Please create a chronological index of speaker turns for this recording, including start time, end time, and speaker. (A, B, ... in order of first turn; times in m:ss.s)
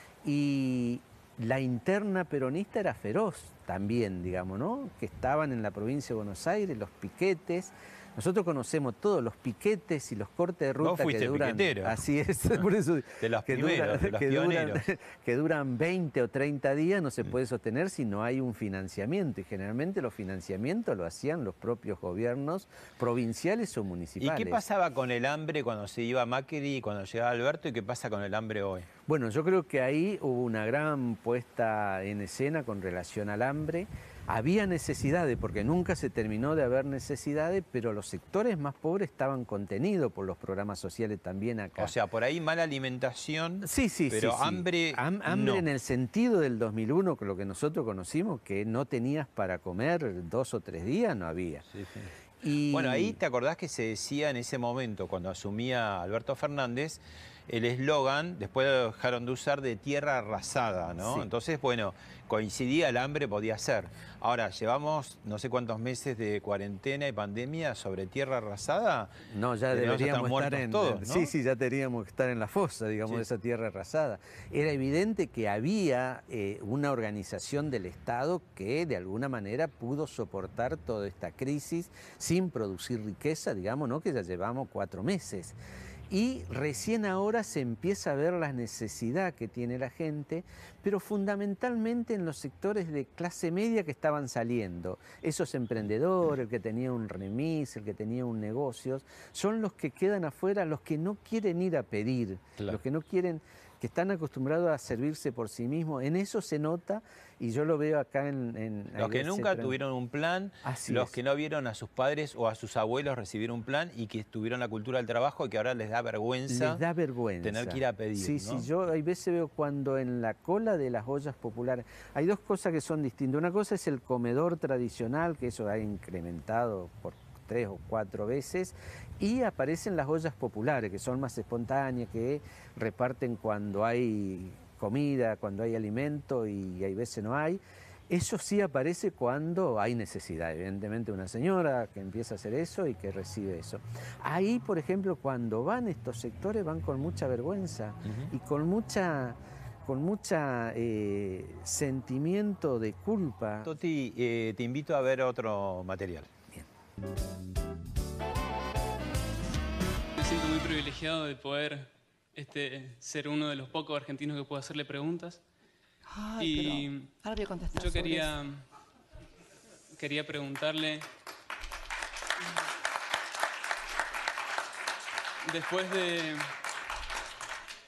0:00.2-0:24.6 A
0:10.8-0:12.0 B
0:13.2-0:14.8 B
0:24.2-0:28.9 B
0:29.1-0:41.9 A
0:41.8-0:45.6 B
0:43.6-0:51.6 A
0:51.7-0:52.1 B
0:52.4-0:53.2 A
0:52.7-1:09.1 B
1:01.0-1:01.3 A
1:09.3-1:25.6 A
1:09.7-1:11.3 B
1:26.1-1:49.8 A
1:49.0-1:56.8 B
1:50.6-1:51.1 A
1:56.5-2:33.7 A
1:57.4-1:58.7 B
2:33.6-2:36.3 B
2:40.2-2:45.4 C
2:46.1-2:48.3 D
2:46.4-2:47.1 C
2:47.7-2:48.6 C
2:49.9-2:51.0 C
2:55.4-2:56.5 C